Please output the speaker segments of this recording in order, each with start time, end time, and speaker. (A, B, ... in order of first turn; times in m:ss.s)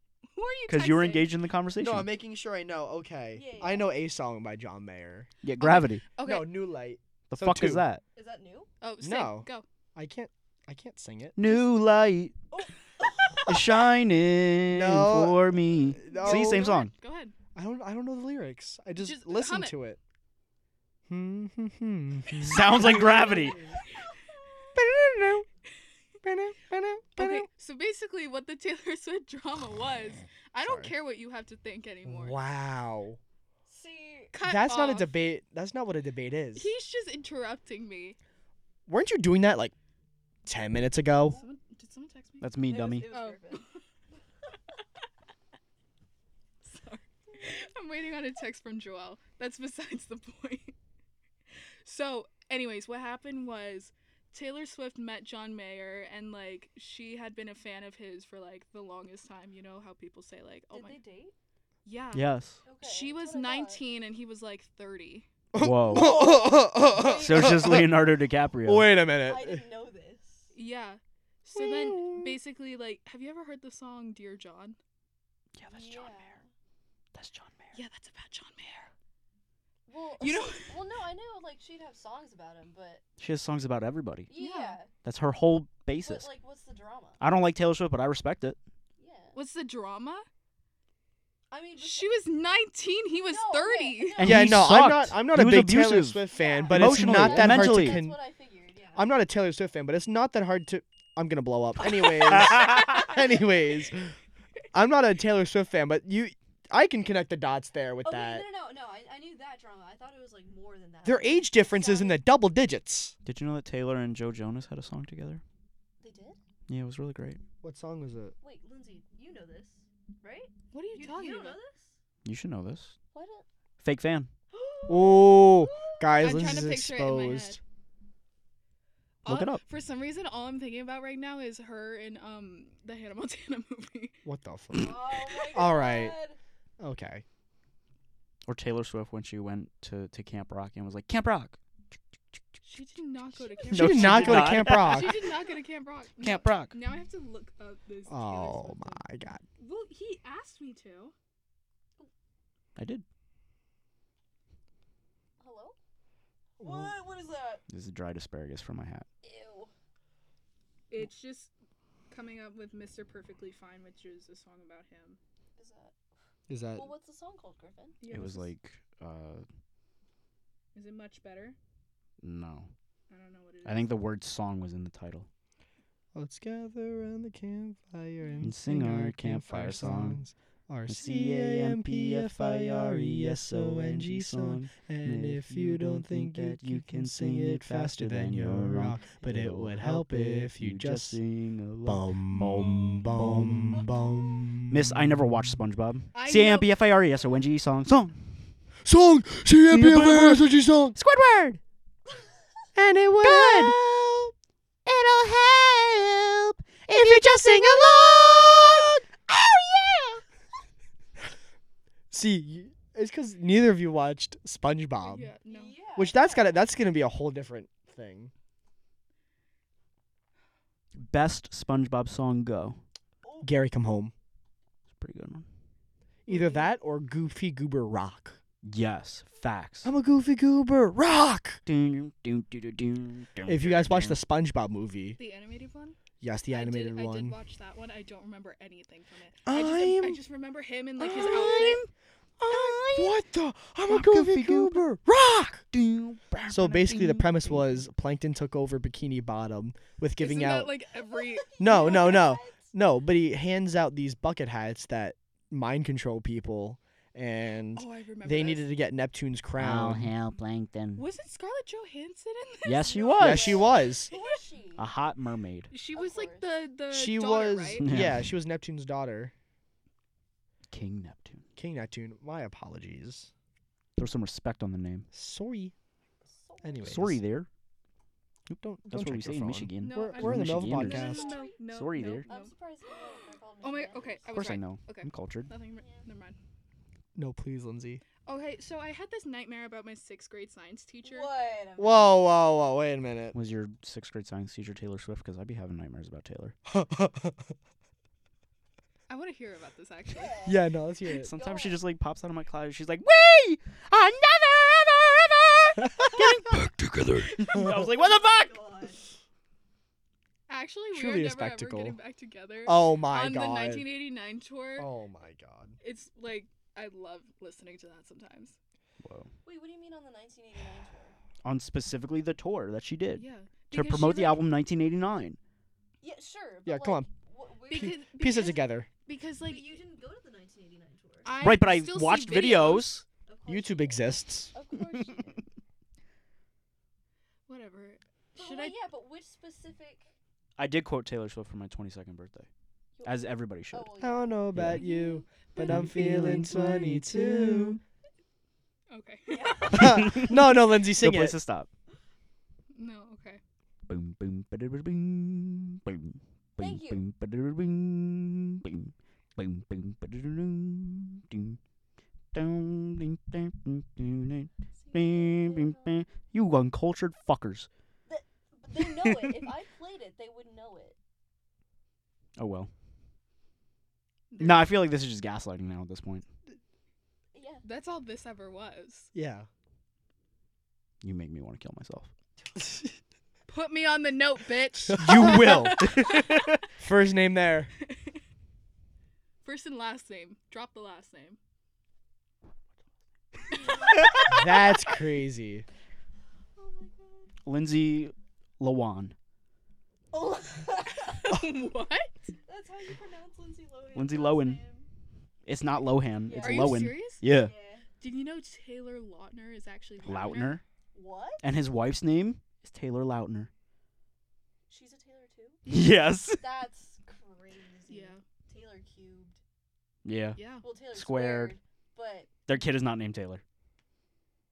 0:00.3-0:01.3 A
0:00.7-0:02.1 B
0:01.8-0:05.3 C
0:03.3-0:03.9 D
0:05.4-0:06.0 B
0:05.6-0:06.7 A
0:06.2-0:07.8 C
0:07.3-0:08.0 B
0:08.1-0:08.7 D
0:08.8-0:09.6 A
0:09.0-0:11.4 C
0:11.4-0:12.3 B
0:12.5-0:13.6 D
0:13.5-0:16.9 B
0:14.7-0:16.7 C
0:16.1-0:17.3 A
0:17.6-0:20.0 C
0:19.0-0:19.8 A
0:21.1-0:23.5 C
0:22.4-0:23.6 B
0:23.2-0:23.7 D
0:24.8-0:25.5 C
0:26.2-0:27.5 C
0:27.2-0:32.4 A
0:30.6-0:30.9 C
0:32.0-0:33.2 C
0:33.7-0:34.4 D
0:34.3-0:35.2 A
0:34.4-0:36.7 C
0:36.6-0:38.2 A
0:38.9-0:39.7 C
0:40.4-0:41.4 C
0:41.4-0:42.5 A
0:42.4-0:43.1 B
0:42.6-0:43.7 D
0:43.1-0:43.8 A
0:46.6-0:50.8 A
0:51.8-1:01.0 A
1:00.7-1:01.4 D
1:01.8-1:02.3 A
1:02.1-1:02.6 B
1:02.6-1:03.8 D
1:02.8-1:05.3 A
1:05.5-1:09.6 C
1:05.6-1:06.3 B
1:05.9-1:07.8 D
1:07.0-1:08.9 B
1:09.2-1:10.5 D
1:10.5-1:14.8 A
1:11.5-1:12.4 C
1:15.6-1:16.4 B
1:15.7-1:16.5 D
1:17.1-1:17.8 B
1:17.7-1:18.9 A
1:19.9-1:23.0 D
1:20.2-1:20.8 A
1:23.2-1:24.3 B
1:24.3-1:24.9 D
1:24.4-1:24.8 A
1:25.0-1:26.3 B
1:26.0-1:27.2 D
1:27.2-1:28.6 B
1:29.0-1:29.4 D
1:29.3-1:30.2 A
1:31.5-1:32.2 D
1:31.8-1:34.3 A
1:33.3-1:34.6 D
1:34.2-1:38.0 B
1:34.2-1:38.2 C
1:36.3-1:39.2 D
1:39.0-1:44.2 C
1:42.3-1:43.1 B
1:44.7-1:48.4 C
1:48.0-1:52.2 D
1:51.0-1:53.2 C
1:53.2-1:55.4 B
1:56.0-1:56.4 D
1:56.7-1:57.4 B
1:57.6-1:58.4 C
1:58.4-2:01.9 D
2:00.7-2:01.6 A
2:02.2-2:03.0 B
2:03.1-2:03.4 D
2:03.8-2:04.3 B
2:04.5-2:06.3 D
2:04.9-2:07.6 C
2:06.2-2:07.6 A
2:09.2-2:14.2 A
2:09.2-2:09.6 B
2:14.2-2:16.2 C
2:14.7-2:16.4 D
2:16.8-2:17.2 C
2:18.5-2:21.6 B
2:22.6-2:29.0 A
2:23.4-2:23.8 D
2:23.7-2:25.2 C
2:23.7-2:25.2 B
2:26.2-2:26.8 B
2:28.1-2:29.4 C
2:29.6-2:31.1 A
2:32.8-2:33.0 B
2:35.4-2:35.8 D
2:36.6-2:37.6 D
2:36.6-2:37.0 C
2:37.7-2:39.1 B
2:39.2-2:39.7 D
2:40.9-2:41.5 A
2:42.1-2:45.2 A
2:45.6-2:45.9 D
2:46.5-2:46.9 C
2:46.8-2:48.0 D
2:48.0-2:48.5 A
2:48.1-2:49.4 B
2:50.7-2:51.6 A
2:52.2-2:52.7 B
2:53.1-2:54.0 A
2:53.6-2:55.3 B
2:56.1-3:11.2 C
2:58.2-2:58.5 A
2:58.4-3:00.2 B
3:00.9-3:13.9 B
3:11.8-3:15.2 C
3:14.7-3:18.4 B
3:16.1-3:16.7 A
3:18.8-3:21.0 C
3:19.7-3:21.6 B
3:22.8-3:24.3 C
3:23.2-3:23.8 B
3:24.9-3:30.2 B
3:26.9-3:28.0 C
3:32.1-3:35.3 C
3:35.0-3:35.8 A
3:35.5-3:36.7 D
3:36.0-3:38.3 C
3:41.0-3:42.8 B
3:43.2-3:43.5 D
3:43.4-3:44.1 C
3:44.9-3:45.5 B
3:46.3-3:48.4 C
3:46.3-3:46.7 A
3:48.6-3:49.9 B
3:49.8-3:51.6 C
3:51.7-3:54.2 B
3:53.5-3:55.2 C
3:55.2-3:56.0 A
3:56.2-3:57.4 C
3:56.5-4:01.8 A
3:59.5-4:00.2 C
4:01.0-4:01.9 B
4:02.4-4:03.1 B
4:02.5-4:05.6 C
4:03.9-4:04.9 B
4:05.7-4:07.8 B
4:06.5-4:10.8 C
4:10.2-4:11.5 A
4:11.0-4:12.6 D
4:11.6-4:20.1 C
4:17.8-4:18.7 A
4:19.6-4:21.0 B
4:21.0-4:24.3 A
4:22.6-4:23.6 B
4:23.2-4:24.1 C
4:23.2-4:24.9 D
4:24.8-4:25.7 B
4:25.7-4:27.9 A
4:25.9-4:26.6 D
4:26.9-4:29.3 C
4:27.8-4:28.3 B
4:30.7-4:31.4 B
4:31.6-4:33.3 C
4:34.0-4:35.1 B
4:35.1-4:35.7 C
4:36.2-4:37.0 D
4:36.6-4:37.2 C
4:36.8-4:37.5 B
4:38.5-4:42.3 B
4:38.5-4:41.4 C
4:39.8-4:42.5 A
4:40.9-4:41.6 D
4:42.3-4:44.3 D
4:43.6-4:46.4 A
4:44.3-4:45.5 B
4:45.8-4:46.0 D
4:47.2-4:48.0 C
4:48.3-4:51.3 A
4:51.0-4:52.2 D
4:51.8-4:53.4 C
4:53.3-4:56.6 B
4:56.7-4:57.5 C
4:59.1-5:00.4 A
5:00.1-5:01.8 D
5:00.4-5:01.3 C
5:01.2-5:08.6 B
5:07.8-5:09.0 D
5:10.5-5:14.9 A
5:10.9-5:12.0 C
5:12.7-5:13.9 C
5:14.8-5:15.8 C
5:15.8-5:18.6 A
5:19.0-5:19.3 B
5:19.4-5:21.2 D
5:21.4-5:25.4 B
5:23.2-5:24.5 A
5:26.0-5:28.0 D
5:26.7-5:27.1 C
5:27.7-5:29.7 A
5:27.7-5:28.9 C
5:29.4-5:31.4 D
5:31.2-5:33.0 A
5:31.4-5:33.0 B
5:33.3-5:35.4 D
5:33.5-5:34.5 C
5:37.5-5:38.8 A
5:38.4-5:40.1 D
5:40.6-5:42.5 B
5:43.0-5:45.2 D
5:43.0-5:43.9 B
5:44.0-5:47.8 C
5:44.5-5:44.8 B
5:45.0-5:45.9 A
5:45.6-5:47.7 B
5:48.9-5:49.7 A
5:49.3-5:50.3 D
5:49.7-5:51.4 C
5:49.7-5:51.7 B
5:52.7-5:53.4 A
5:53.9-6:01.6 B
5:56.6-5:57.0 D
6:02.3-6:07.7 B
6:04.8-6:06.0 D
6:08.1-6:11.0 D
6:08.8-6:09.3 B
6:12.4-6:12.7 B
6:14.3-6:14.8 A
6:14.4-6:16.2 B
6:17.3-6:17.6 D
6:17.6-6:19.1 A
6:19.1-6:19.5 C
6:21.0-6:22.1 B
6:23.5-6:26.5 A
6:24.9-6:25.8 C
6:25.0-6:26.6 B
6:26.8-6:27.7 C
6:29.4-6:31.4 A
6:33.5-6:34.6 A
6:33.6-6:34.1 D
6:34.3-6:35.6 C
6:36.6-6:37.3 D
6:37.4-6:39.2 B
6:40.1-6:41.3 D
6:41.0-6:42.1 A
6:42.5-6:44.9 D
6:44.0-6:44.6 B
6:45.4-6:47.5 B
6:46.2-6:47.8 D
6:46.4-6:47.2 A
6:48.0-6:50.6 A
6:50.0-6:50.6 B
6:50.9-6:51.4 D
6:51.4-6:53.5 B
6:54.7-6:55.6 D
6:55.7-6:56.4 B
6:56.3-6:59.4 D
6:57.9-6:58.2 A
7:00.0-7:00.4 B
7:00.4-7:00.6 A
7:00.6-7:02.3 D
7:00.9-7:01.6 B
7:02.5-7:03.4 B